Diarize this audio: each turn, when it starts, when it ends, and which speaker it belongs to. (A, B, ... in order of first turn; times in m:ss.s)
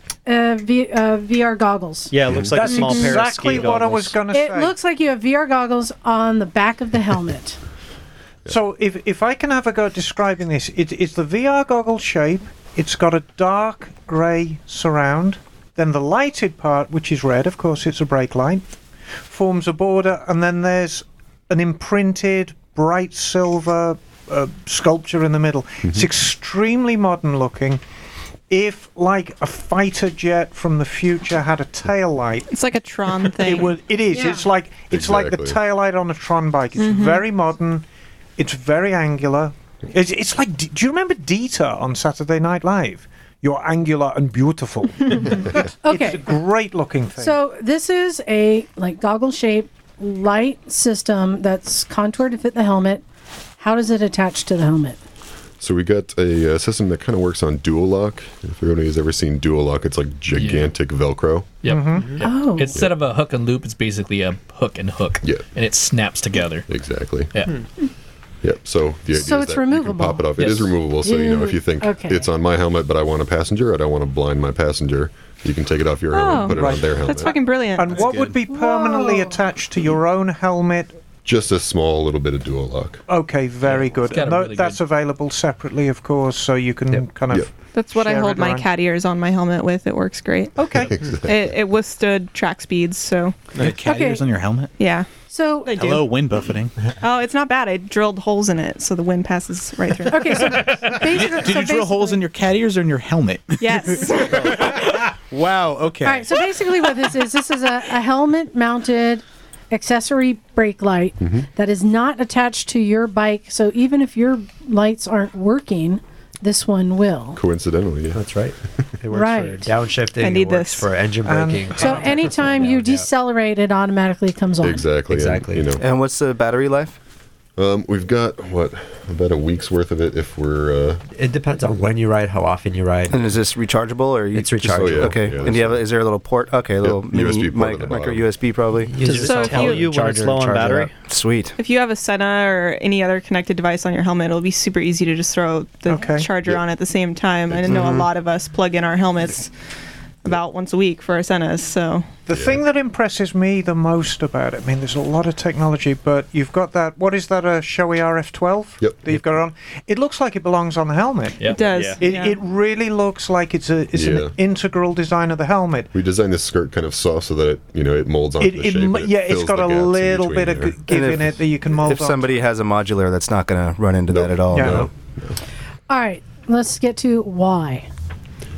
0:00.2-0:02.1 A
0:02.1-0:04.2 B
0:02.3-0:02.6 C
0:02.3-0:04.7 D
0:02.7-0:03.1 A
0:04.3-0:07.6 A
0:08.4-0:18.6 D
0:19.3-0:27.8 D
0:25.8-0:26.1 C
0:28.5-0:32.6 D
0:32.5-0:33.8 E
0:33.1-0:37.8 D
0:34.1-0:34.4 A
0:34.9-0:35.6 C
0:36.8-0:37.2 E
0:38.4-0:47.4 D
0:45.8-0:46.4 A
0:47.2-0:53.0 A
0:53.6-0:55.0 A
0:55.6-1:01.6 C
1:00.4-1:00.7 F
1:01.6-1:06.7 F
1:01.7-1:02.2 D
1:02.2-1:02.8 A
1:06.7-1:07.4 C
1:07.3-1:07.6 F
1:08.4-1:17.4 C
1:09.1-1:10.2 A
1:10.4-1:10.7 F
1:11.0-1:12.3 A
1:16.1-1:18.4 E
1:17.8-1:21.0 D
1:18.0-1:18.3 G
1:18.5-1:19.3 A
1:21.2-1:23.0 C
1:23.1-1:28.7 D
1:23.7-1:24.8 F
1:26.9-1:27.5 C
1:27.7-1:33.4 E
1:30.6-1:31.0 D
1:30.9-1:31.3 C
1:33.6-1:34.7 G
1:33.8-1:34.2 A
1:34.8-1:35.1 E
1:35.3-1:36.0 A
1:35.6-1:36.0 E
1:35.7-1:36.7 G
1:37.0-1:40.6 E
1:40.1-1:42.2 A
1:40.6-1:46.4 G
1:43.6-1:44.8 E
1:46.0-1:57.4 A
1:51.2-1:51.5 C
1:57.4-1:58.3 C
1:58.1-2:03.1 H
1:59.1-1:59.7 A
2:00.2-2:00.9 E
2:01.2-2:02.2 D
2:01.8-2:04.8 A
2:04.6-2:05.8 C
2:05.1-2:05.7 H
2:05.8-2:07.0 I
2:07.6-2:11.0 C
2:11.1-2:13.2 H
2:13.1-2:18.9 I
2:14.3-2:15.2 H
2:14.7-2:15.9 C
2:16.8-2:18.4 C
2:18.9-2:20.9 H
2:19.0-2:20.9 B
2:19.1-2:19.9 E
2:21.1-2:21.5 I
2:21.6-2:29.5 E
2:25.9-2:26.3 D
2:26.4-2:26.6 C
2:27.5-2:28.1 C
2:27.7-2:28.0 I
2:30.2-2:32.1 E
2:32.3-2:45.9 D
2:32.3-2:32.6 C
2:38.8-2:39.1 C
2:41.4-2:41.7 F
2:41.5-2:42.4 E
2:43.9-2:44.4 C
2:45.9-2:50.8 C
2:48.4-2:52.3 D
2:50.9-2:54.9 I
2:54.1-2:55.4 C
2:54.5-2:54.8 D
2:55.9-2:57.9 A